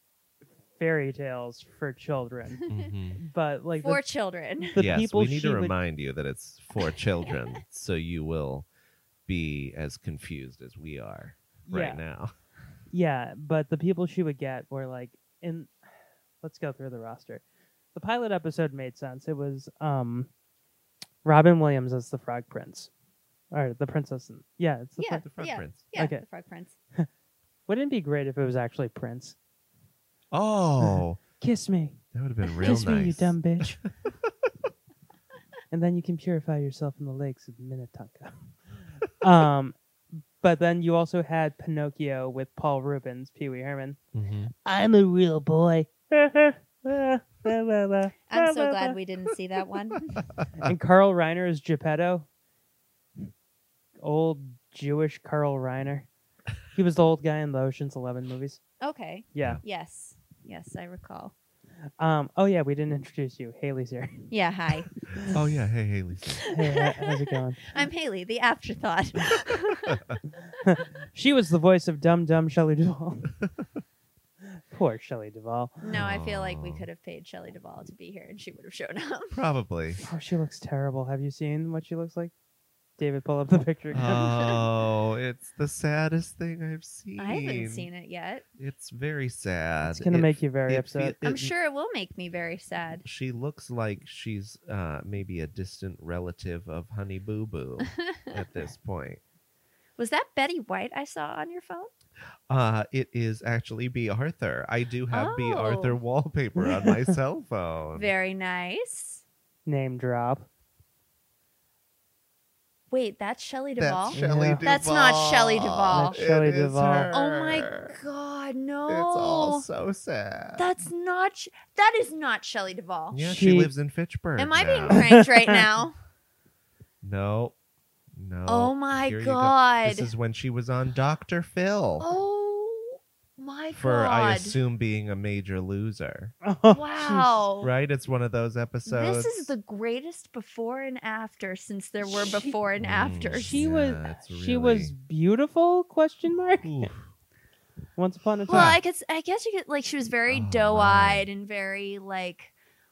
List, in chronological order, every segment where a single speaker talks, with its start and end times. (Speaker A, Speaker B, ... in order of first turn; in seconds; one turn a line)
Speaker A: 0.8-2.6
Speaker B: 2.7-3.2
Speaker A: 3.2-4.0
Speaker C: 3.8-4.8
Speaker A: 4.6-5.8
Speaker B: 4.8-8.7
Speaker B: 9.3-12.3
Speaker A: 11.7-12.0
Speaker A: 12.9-15.7
Speaker A: 16.4-17.4
Speaker A: 17.9-20.3
Speaker A: 21.2-22.9
Speaker A: 23.5-25.2
Speaker C: 25.0-26.8
Speaker B: 25.2-25.9
Speaker A: 25.9-26.2
Speaker A: 27.7-29.4
Speaker B: 30.3-31.2
Speaker A: 31.4-32.0
Speaker B: 32.1-33.9
Speaker A: 32.6-33.8
Speaker A: 35.7-38.5
Speaker A: 39.2-39.8
Speaker A: 40.4-44.0
Speaker B: 44.1-44.5
Speaker A: 44.6-49.0
Speaker C: 48.3-50.2
Speaker A: 50.6-52.3
Speaker A: 54.0-56.1
Speaker A: 56.7-58.6
Speaker C: 58.8-61.3
Speaker A: 59.3-59.6
Speaker A: 62.0-64.3
Speaker C: 64.3-64.9
Speaker B: 65.3-66.4
Speaker A: 66.5-67.6
Speaker C: 67.6-70.0
Speaker A: 70.6-73.3
Speaker A: 74.7-75.7
Speaker C: 75.8-79.4
Speaker B: 75.9-76.9
Speaker B: 79.3-80.0
Speaker A: 80.1-82.3
Speaker A: 83.0-84.3
Speaker B: 84.0-87.9
Speaker C: 87.2-88.5
Speaker B: 88.6-91.5
Speaker A: 89.8-91.2
Speaker C: 91.2-93.0
Speaker B: 93.0-99.2
Speaker C: 100.0-101.9
Speaker B: 102.5-108.1
Speaker C: 105.1-106.0
Speaker A: 106.6-107.1
Speaker C: 108.0-109.2
Speaker A: 109.7-110.5
Speaker C: 112.9-116.2
Speaker B: 113.8-117.9
Speaker A: 114.1-114.6
Speaker A: 115.9-117.1
Speaker C: 117.1-119.7
Speaker B: 118.9-120.7
Speaker C: 120.6-123.3
Speaker B: 123.1-125.0
Speaker A: 123.2-123.7
Speaker C: 124.4-126.0
Speaker B: 127.0-127.5
Speaker B: 128.2-132.1
Speaker C: 128.5-130.1
Speaker C: 132.0-134.6
Speaker B: 133.7-136.3
Speaker A: 136.4-137.4
Speaker C: 136.7-137.7
Speaker B: 137.6-139.5
Speaker C: 138.9-143.6
Speaker A: 142.2-142.5
Speaker B: 142.8-144.9
Speaker A: 143.3-146.7
Speaker B: 146.6-147.1
Speaker A: 148.0-148.7
Speaker B: 148.5-148.8
Speaker C: 148.5-152.5
Speaker B: 150.3-151.3